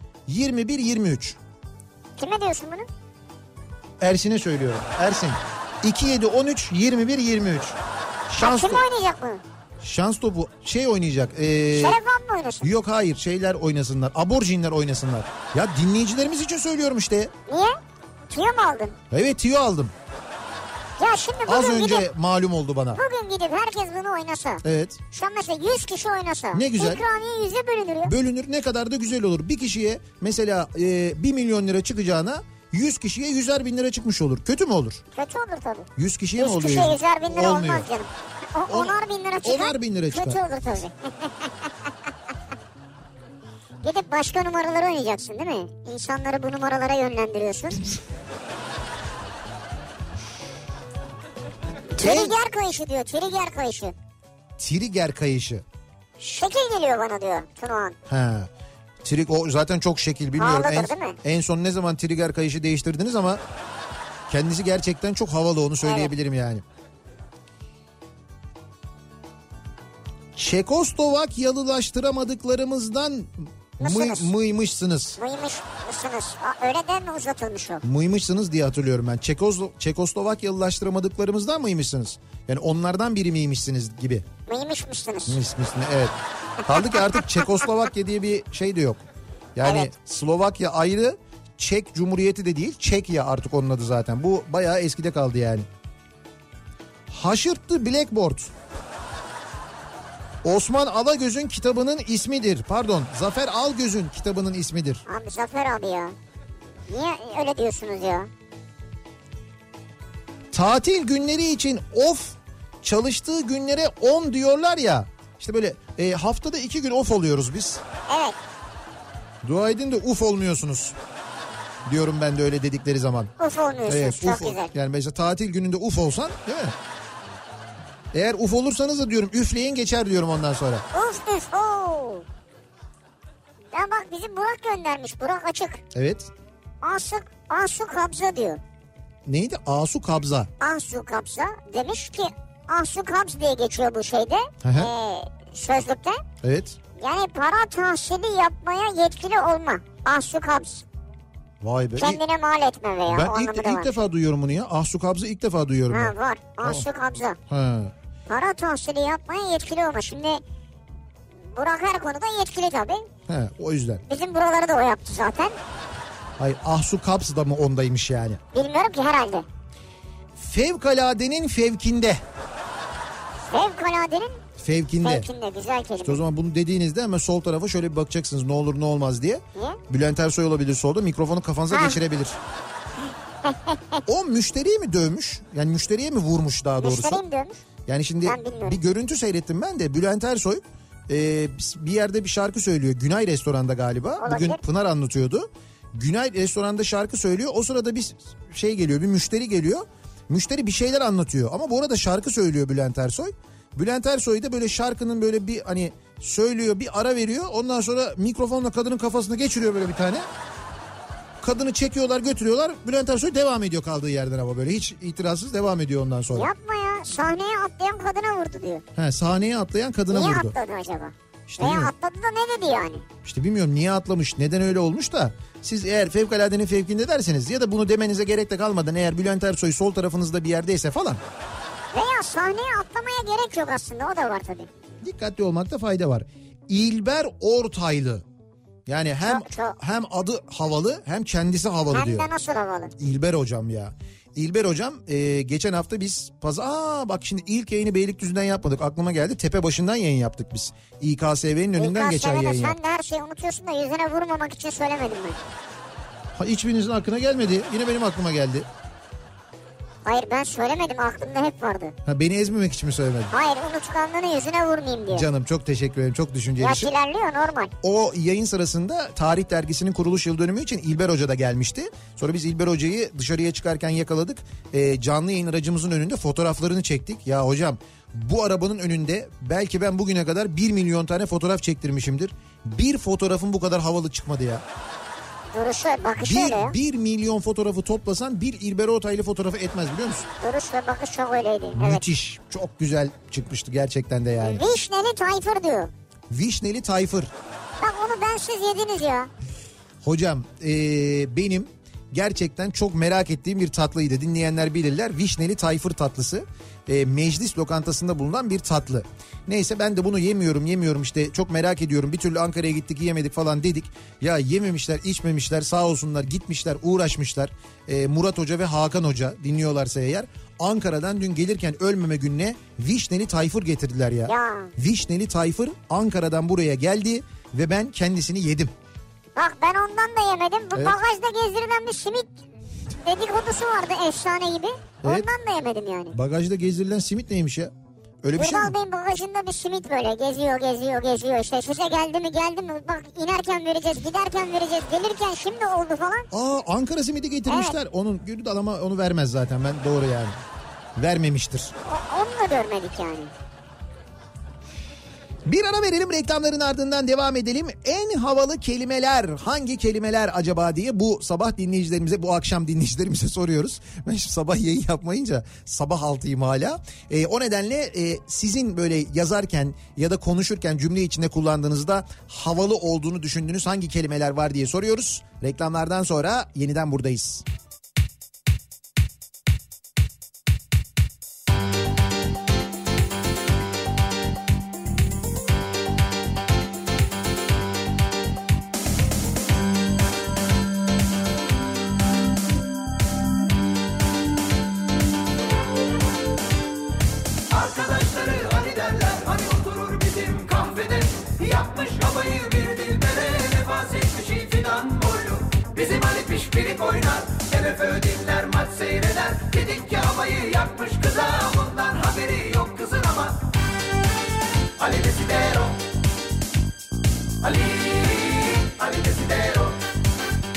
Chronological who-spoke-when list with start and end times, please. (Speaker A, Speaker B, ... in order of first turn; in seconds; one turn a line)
Speaker A: 0.3-1.4
Speaker B: 2.2-2.9
Speaker A: 4.0-7.8
Speaker A: 8.3-8.8
Speaker B: 8.4-9.4
Speaker A: 9.8-12.0
Speaker B: 11.7-12.7
Speaker A: 12.6-17.3
Speaker B: 17.5-17.8
Speaker B: 18.3-19.0
Speaker A: 19.1-19.9
Speaker B: 21.0-22.1
Speaker A: 21.4-23.0
Speaker B: 22.9-28.1
Speaker A: 24.6-25.0
Speaker A: 26.5-27.0
Speaker A: 28.0-35.0
Speaker B: 35.1-41.9
Speaker A: 36.0-37.9
Speaker A: 38.7-40.4
Speaker B: 43.8-47.9
Speaker A: 52.0-52.4
Speaker B: 52.0-53.9
Speaker A: 54.6-55.6
Speaker B: 56.2-58.0
Speaker A: 58.1-58.5
Speaker A: 59.0-63.4
Speaker B: 60.4-61.2
Speaker A: 64.3-66.6
Speaker B: 65.8-66.1
Speaker A: 70.3-75.2
Speaker B: 73.8-74.3
Speaker B: 75.2-77.8
Speaker A: 77.8-84.2
Speaker B: 84.5-85.4
Speaker A: 85.3-89.0
Speaker B: 86.7-87.7
Speaker A: 89.5-95.7
Speaker B: 89.6-89.9
Speaker A: 97.1-98.5
Speaker A: 100.4-105.0
Speaker B: 105.1-106.2
Speaker B: 106.9-108.3
Speaker A: 110.5-117.8
Speaker B: 118.1-118.4
Speaker A: 119.4-120.9
Speaker A: 121.8-123.3
Speaker B: 123.4-124.7
Speaker A: 123.8-126.7
Speaker A: 128.1-130.8
Speaker B: 130.9-132.2
Speaker B: 133.7-135.8
Speaker A: 135.9-136.3
Speaker B: 136.8-138.6
Speaker A: 139.2-140.5
Speaker B: 140.6-146.2
Speaker A: 144.6-144.9
Speaker A: 146.4-146.8
Speaker B: 147.0-150.8
Speaker A: 151.6-152.2
Speaker B: 152.0-153.9
Speaker A: 153.1-156.9
Speaker B: 155.9-157.4
Speaker A: 157.5-157.9
Speaker B: 158.3-160.4
Speaker B: 161.5-163.1
Speaker A: 163.3-164.0
Speaker B: 164.1-165.6
Speaker A: 166.4-168.4
Speaker B: 168.5-169.4
Speaker A: 170.4-172.2
Speaker B: 173.5-174.4
Speaker A: 174.6-175.3
Speaker B: 175.0-176.2
Speaker A: 176.0-182.4
Speaker B: 179.5-179.8
Speaker B: 181.7-182.0
Speaker B: 183.4-184.0
Speaker A: 184.1-187.2
Speaker B: 186.8-187.6
Speaker A: 187.8-210.2
Speaker B: 188.2-188.8
Speaker B: 194.2-194.6
Speaker A: 211.4-216.5
Speaker B: 216.3-218.8
Speaker A: 218.9-220.5
Speaker B: 220.1-223.0
Speaker A: 221.5-221.9
Speaker A: 223.2-231.2
Speaker B: 231.9-234.7
Speaker A: 235.0-238.2
Speaker A: 238.9-242.3
Speaker B: 239.2-239.8
Speaker B: 241.9-242.9
Speaker A: 243.0-252.8
Speaker B: 251.8-255.4
Speaker A: 256.3-258.7
Speaker B: 260.0-261.9
Speaker A: 262.1-263.3
Speaker B: 263.3-265.3
Speaker A: 265.1-266.9
Speaker B: 266.6-267.7
Speaker A: 267.8-284.6
Speaker B: 285.5-286.7
Speaker A: 286.2-290.3
Speaker B: 290.4-292.0
Speaker A: 291.8-294.6
Speaker B: 294.4-295.9
Speaker A: 296.3-297.3
Speaker B: 297.8-299.3
Speaker A: 300.0-328.7
Speaker B: 324.2-324.7
Speaker B: 329.4-332.3
Speaker B: 333.0-336.1
Speaker A: 336.1-337.7
Speaker A: 338.2-338.7
Speaker B: 338.4-346.3
Speaker A: 346.3-350.4
Speaker B: 347.5-347.8
Speaker A: 351.0-351.7
Speaker B: 351.8-353.3
Speaker A: 355.5-377.4
Speaker C: 397.5-413.4
Speaker C: 414.8-415.8
Speaker C: 417.4-419.8